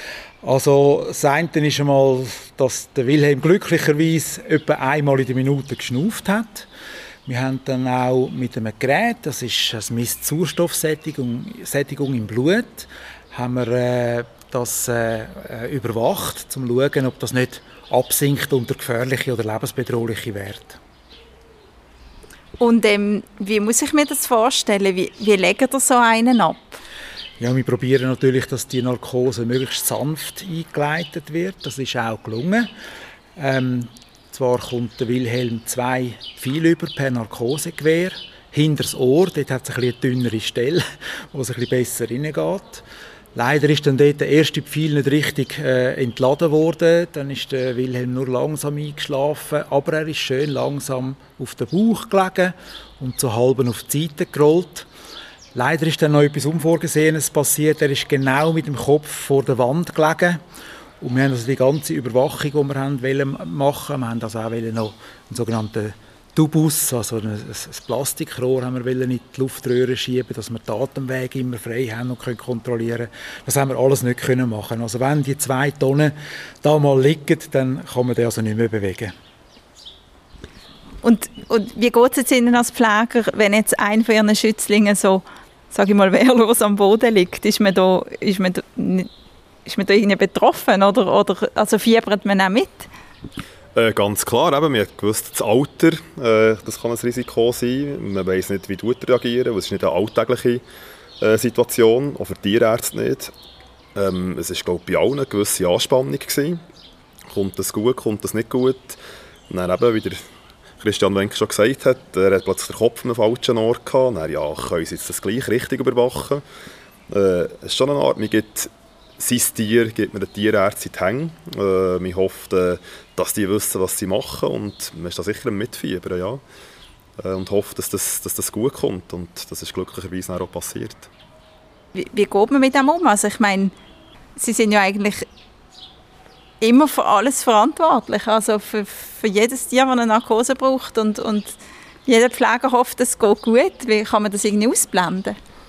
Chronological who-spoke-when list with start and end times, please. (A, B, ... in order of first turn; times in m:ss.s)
0:00.4-0:06.7 A
0:07.3-0:20.8 A
0:22.6-0:26.8 B
0:27.4-0:32.7 A
0:33.4-0:54.9 A
0:55.5-1:00.4 A
1:01.0-1:19.2 A
1:21.0-1:29.1 B
1:29.6-1:32.9 B
1:33.8-1:40.6 C
1:41.2-1:43.3 C
1:44.0-1:46.6 C
1:47.3-1:49.0 C
1:49.5-1:50.2 C
1:50.8-1:56.4 C
1:57.1-2:06.4 C
2:07.2-2:11.1 C
2:11.9-2:13.7 B
2:14.4-2:15.2 B
2:16.6-2:25.4 B